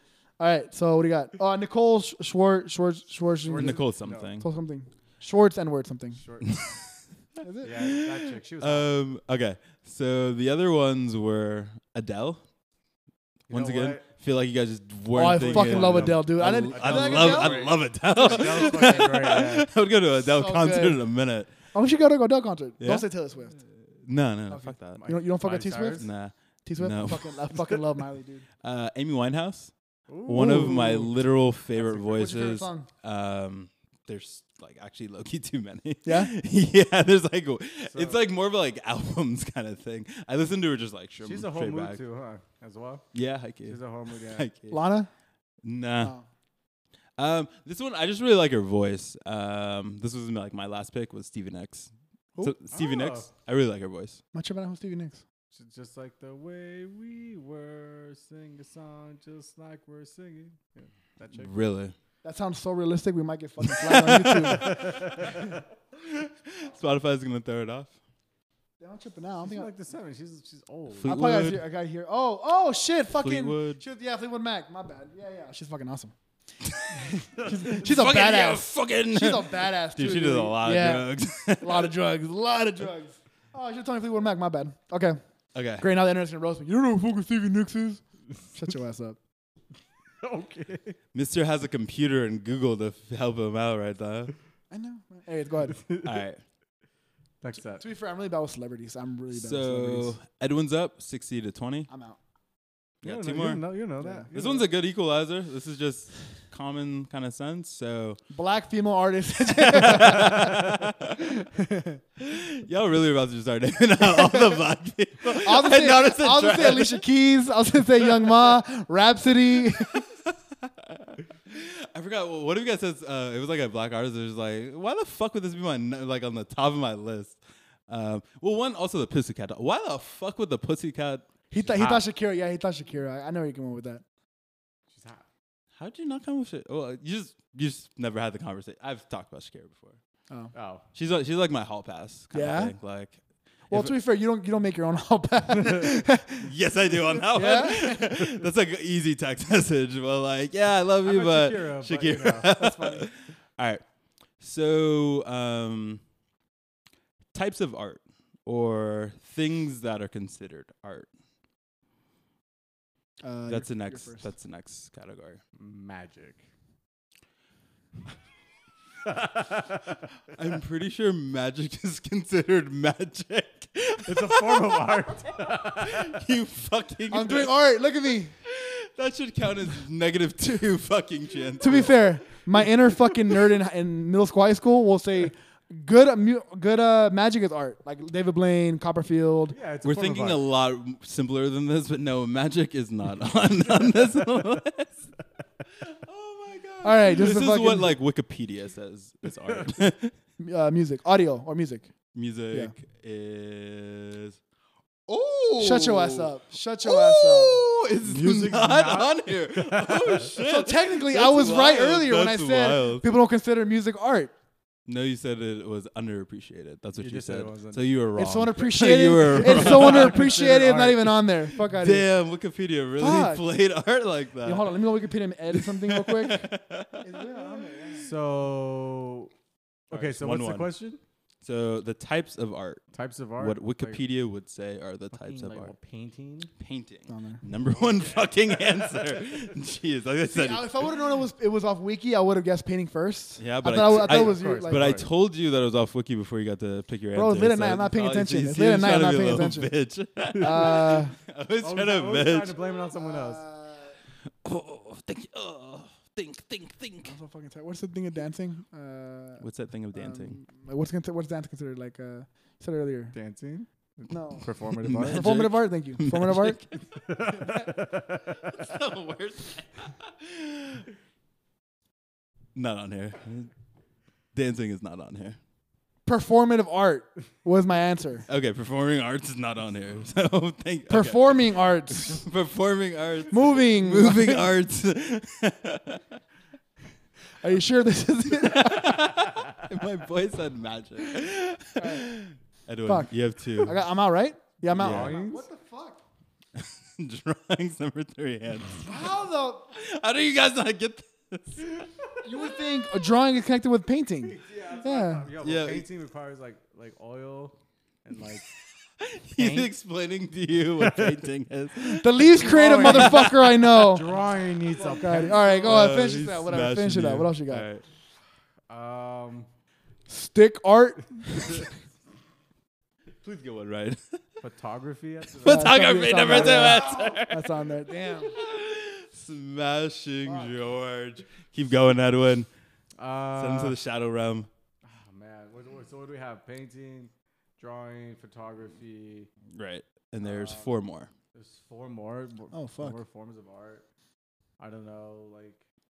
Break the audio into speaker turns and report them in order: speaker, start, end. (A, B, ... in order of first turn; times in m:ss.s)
0:00.4-0:03.8 A
0:03.4-0:04.3 B
0:03.5-0:04.5 C
0:04.4-0:06.2 A
0:06.1-0:06.5 B
0:06.4-0:06.8 C
0:07.4-0:07.7 A
0:07.6-0:08.9 B
0:07.6-0:12.4 C
0:13.5-0:14.0 B
0:13.5-0:21.5 C
0:15.1-0:19.0 A
0:15.4-0:19.7 B
0:20.2-0:21.0 A
0:21.7-0:23.6 A
0:22.8-0:23.1 C
0:24.0-0:25.0 C
0:24.5-0:26.1 A
0:24.9-0:26.1 B
0:26.0-0:27.6 C
0:26.6-0:28.4 A
0:28.6-0:29.7 C
0:30.1-0:31.1 B
0:30.2-0:42.0 C
0:30.3-0:31.1 A
0:31.8-0:32.9 A
0:36.0-0:36.3 A
0:37.9-0:38.2 B
0:41.2-0:43.1 B
0:43.1-0:44.8 C
0:43.6-0:44.5 B
0:44.7-0:45.1 A
0:45.6-0:46.1 C
0:47.2-0:54.2 C
0:52.7-0:53.3 B
0:54.3-0:55.2 A
0:55.5-1:01.6 B
1:01.3-1:01.9 C
1:02.2-1:04.9 A
1:03.7-1:05.0 C
1:04.7-1:05.4 B
1:06.0-1:07.9 C
1:08.8-1:09.7 A
1:09.4-1:11.2 B
1:10.9-1:11.6 C
1:11.0-1:16.1 A
1:13.2-1:13.8 C
1:17.4-1:25.2 A
1:17.7-1:21.9 C
1:25.5-1:25.9 C
1:25.8-1:29.2 A
1:30.2-1:31.0 B
1:31.1-1:34.3 C
1:34.7-1:35.8 A
1:36.0-1:36.4 C
1:37.4-1:37.8 B
1:37.8-1:40.2 A
1:39.3-1:41.9 C
1:41.9-1:42.2 A
1:43.0-1:43.6 C
1:43.0-1:44.7 B
1:44.0-1:44.3 A
1:44.3-1:48.2 C
1:48.3-1:52.0 A
1:49.5-1:51.3 C
1:52.2-1:57.0 C
1:54.2-1:54.6 A
1:55.3-2:00.0 A
1:59.9-2:11.2 C
2:11.5-2:14.0 A
2:11.6-2:12.1 B
2:14.9-2:15.3 B
2:15.8-2:20.0 C
2:20.5-2:20.8 B
2:20.9-2:23.2 C
2:22.3-2:22.7 A
2:23.7-2:26.5 A
2:26.4-2:33.8 C
2:27.1-2:28.2 A
2:31.0-2:32.6 B
2:32.4-2:33.1 A
2:34.4-2:36.0 C
2:37.3-2:41.1 C
2:43.2-2:44.3 A
2:43.5-2:45.4 C
2:45.6-2:46.4 B
2:49.0-2:50.0 B
2:50.3-2:54.8 C
2:54.0-2:56.2 B
2:55.4-2:57.6 C
2:57.1-2:58.3 A
2:58.4-3:02.0 C
3:01.6-3:09.6 A
3:09.5-3:10.4 B
3:09.8-3:15.1 C
3:15.8-3:20.1 C
3:16.8-3:17.9 A
3:20.4-3:21.9 A
3:22.1-3:24.4 C
3:25.1-3:33.1 C
3:25.6-3:27.6 A
3:28.0-3:30.3 B
3:30.4-3:34.3 A
3:34.9-3:40.2 C
3:37.0-3:37.8 B
3:38.2-3:42.1 A
3:39.3-3:41.2 B
3:41.7-3:44.8 C
3:43.0-3:43.5 A
3:44.4-3:48.1 A
3:45.5-3:47.1 C
3:48.0-3:49.3 B
3:49.9-3:51.0 B
3:49.9-3:50.7 C
3:51.4-3:52.8 C
3:52.9-3:54.0 B
3:53.4-3:55.7 C
3:55.1-3:56.5 B
3:56.6-4:00.9 C
3:57.1-3:57.4 A
3:57.9-3:59.0 B
4:00.3-4:04.8 A
4:03.4-4:12.5 C
4:03.9-4:05.0 B
4:07.1-4:09.7 A
4:10.4-4:11.1 A
4:11.6-4:13.4 B
4:12.9-4:13.9 A
4:14.4-4:17.1 C
4:17.0-4:19.4 A
4:19.4-4:20.4 C
4:19.9-4:23.1 A
4:23.1-4:25.3 B
4:24.1-4:24.5 A
4:24.8-4:26.7 C
4:25.0-4:26.6 A
4:27.0-4:28.5 B
4:27.4-4:27.6 A
4:28.5-4:30.8 C
4:32.6-4:33.5 C
4:34.3-4:35.4 C
4:36.0-4:38.3 A
4:38.3-4:46.0 C
4:40.9-4:42.2 A
4:43.3-4:44.5 A
4:47.4-4:49.1 A
4:48.4-4:53.8 C
4:51.8-4:52.1 A
4:52.8-4:56.0 A
4:54.7-4:55.4 B
4:54.7-4:55.2 C
4:56.5-4:58.9 C
4:58.8-4:59.7 A
4:59.7-5:01.7 C
5:02.2-5:05.3 A
5:04.2-5:08.4 B
5:05.4-5:05.9 C
5:09.0-5:14.0 C
5:09.3-5:09.7 B
5:10.8-5:11.2 B
5:11.8-5:14.1 A
5:12.3-5:15.9 B
5:14.8-5:17.6 A
5:15.6-5:17.8 C
5:18.7-5:19.5 B
5:20.1-5:21.6 A
5:23.2-5:24.2 C
5:24.4-5:25.8 B
5:25.3-5:32.5 C
5:25.4-5:28.3 A
5:30.2-5:30.5 A
5:33.0-5:33.8 B
5:33.3-5:34.5 C
5:34.8-5:39.3 B
5:39.5-5:41.1 C
5:40.2-5:40.7 B
5:41.3-5:43.8 B
5:42.5-5:43.0 A
5:44.6-5:45.6 B